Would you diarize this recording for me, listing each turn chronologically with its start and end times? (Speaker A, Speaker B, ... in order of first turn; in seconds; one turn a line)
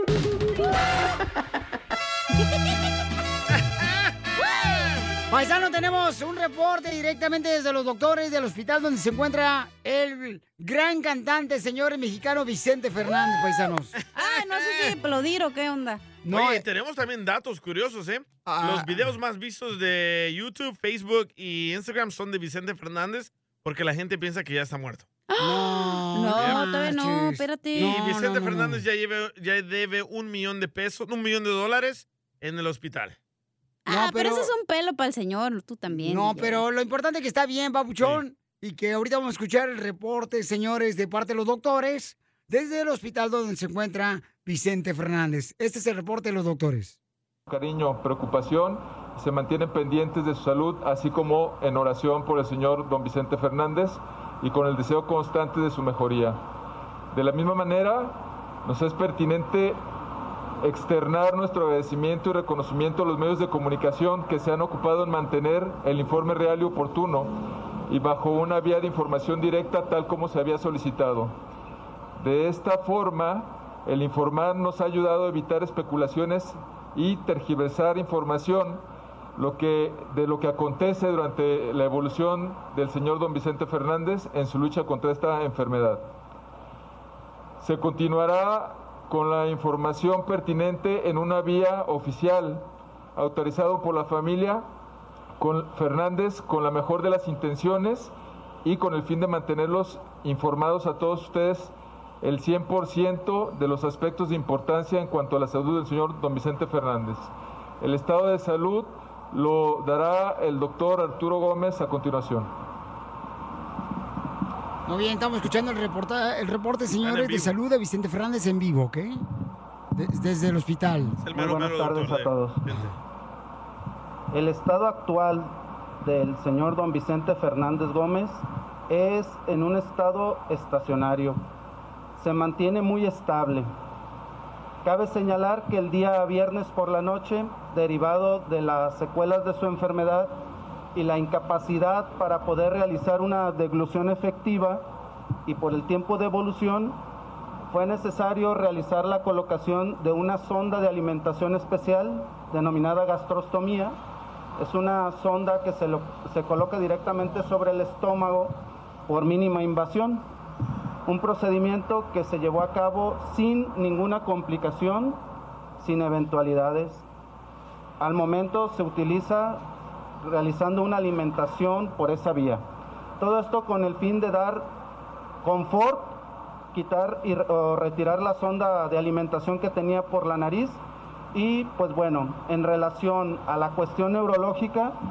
Speaker A: 5.3-13.9
Speaker B: 14.1-16.0
Speaker A: 16.2-16.6
Speaker C: 16.3-25.1
Speaker A: 18.5-18.9
Speaker B: 25.3-28.0
Speaker A: 25.4-28.8
Speaker C: 26.4-26.6
Speaker C: 27.8-33.2
Speaker B: 33.9-36.6
Speaker A: 33.9-34.5
Speaker A: 35.9-47.0
Speaker D: 47.5-56.4
Speaker D: 57.1-59.8
Speaker D: 60.6-71.4
Speaker D: 72.2-78.8
Speaker D: 79.4-86.1
Speaker D: 87.6-92.7
Speaker D: 93.2-94.7
Speaker D: 95.4-98.1
Speaker D: 98.6-107.3
Speaker D: 107.8-112.5
Speaker A: 114.9-119.2
Speaker C: 117.0-117.5
Speaker A: 120.0-121.2
Speaker C: 121.2-122.9
Speaker E: 121.3-122.6
Speaker E: 124.3-125.5
Speaker E: 126.0-131.4
Speaker E: 132.2-133.7
Speaker E: 134.8-140.3
Speaker E: 140.9-144.8
Speaker E: 145.5-147.0
Speaker E: 147.7-153.9
Speaker E: 154.6-158.5
Speaker E: 159.1-160.2
Speaker E: 161.1-165.2
Speaker E: 165.8-167.0
Speaker E: 168.0-169.6
Speaker E: 170.3-172.6
Speaker E: 173.2-174.7
Speaker E: 175.4-176.2
Speaker E: 176.7-180.8
Speaker E: 181.3-184.9